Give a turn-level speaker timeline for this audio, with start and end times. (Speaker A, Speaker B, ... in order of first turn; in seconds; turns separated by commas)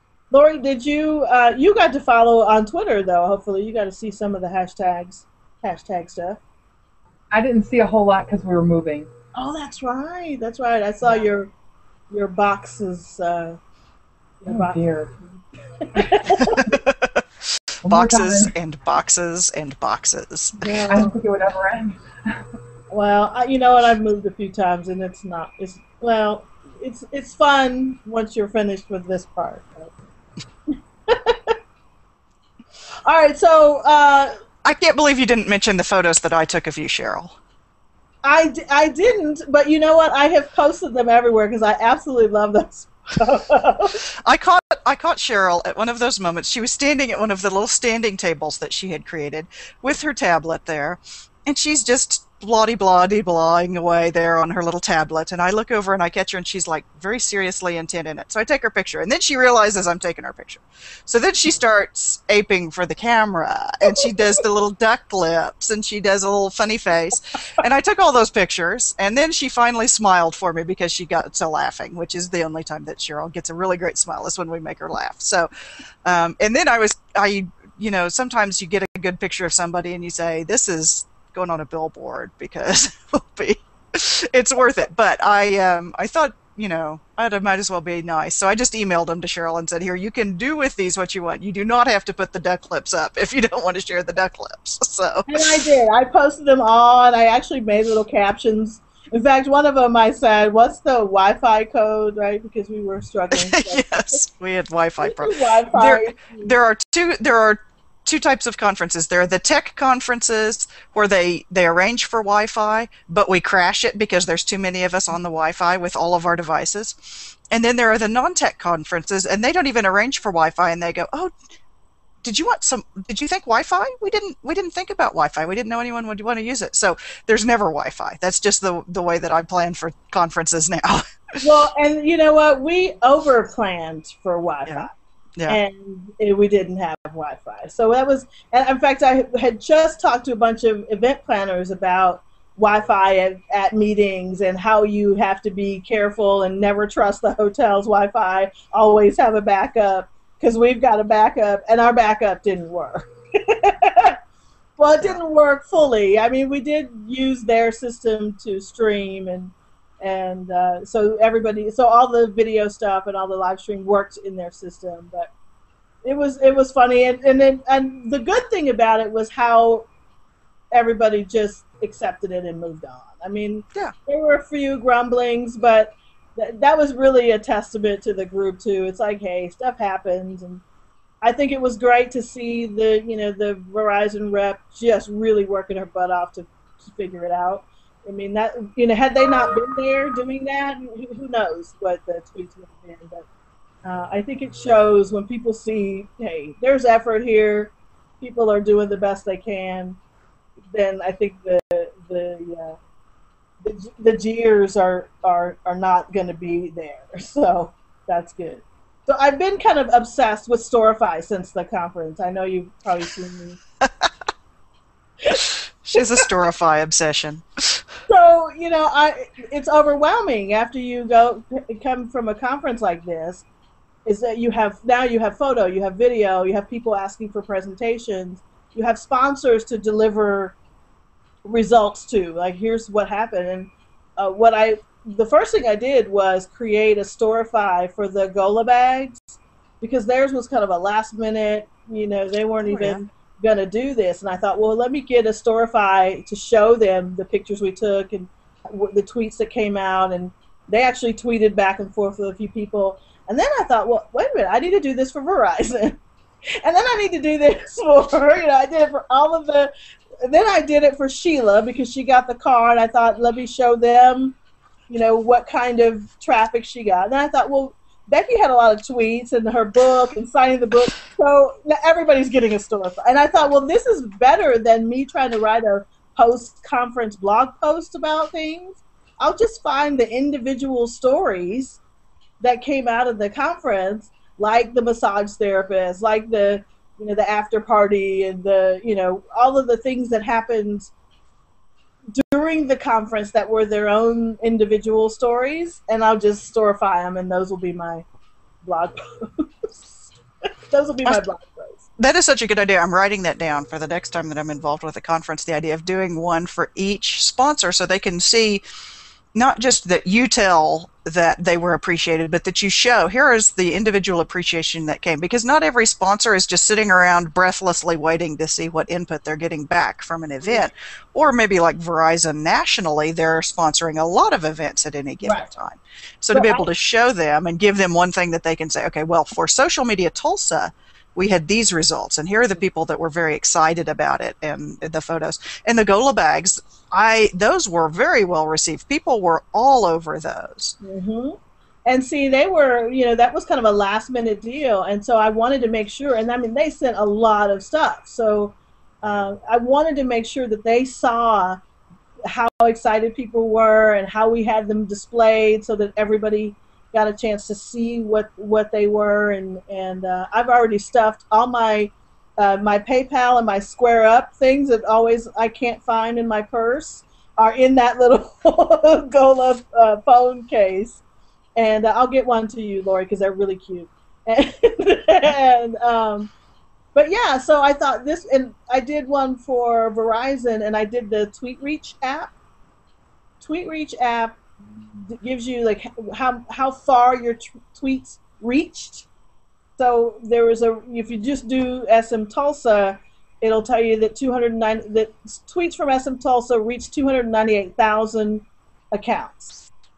Speaker A: 0.3-6.4, Speaker B: 7.3-9.1, Speaker A: 9.3-11.5, Speaker A: 12.1-13.6, Speaker A: 14.4-14.8, Speaker B: 14.5-15.1, Speaker A: 15.8-16.8, Speaker C: 16.3-21.0, Speaker B: 17.9-18.5, Speaker A: 20.6-21.2, Speaker B: 20.9-22.4, Speaker A: 22.9-29.9, Speaker A: 31.1-31.6, Speaker A: 33.1-34.4, Speaker C: 34.6-37.4, Speaker A: 38.2-44.0, Speaker C: 44.2-75.5, Speaker C: 76.0-95.6, Speaker A: 95.3-104.2, Speaker C: 103.3-121.3, Speaker A: 105.0-106.5, Speaker C: 122.2-131.4, Speaker A: 131.4-134.9, Speaker C: 134.7-135.6, Speaker A: 135.5-154.2, Speaker A: 154.8-165.3, Speaker A: 166.0-169.9, Speaker A: 170.7-180.6, Speaker A: 181.2-193.3, Speaker A: 193.8-200.0, Speaker A: 200.7-202.8, Speaker A: 203.6-213.6, Speaker C: 213.8-214.1, Speaker C: 215.8-217.8, Speaker A: 218.1-223.4, Speaker A: 224.1-230.6, Speaker A: 231.4-256.0, Speaker C: 242.6-243.0, Speaker A: 256.6-259.7, Speaker A: 260.2-264.4, Speaker A: 264.9-281.8, Speaker A: 282.4-290.9, Speaker A: 292.1-298.1, Speaker A: 298.6-300.1, Speaker A: 300.7-301.9, Speaker C: 302.0-308.6, Speaker C: 309.4-340.8, Speaker A: 325.2-325.5, Speaker A: 326.3-326.7, Speaker A: 340.8-351.6, Speaker A: 352.3-371.0, Speaker A: 371.6-376.3, Speaker A: 376.9-382.3, Speaker A: 383.4-384.4, Speaker A: 385.0-389.1, Speaker A: 389.8-399.6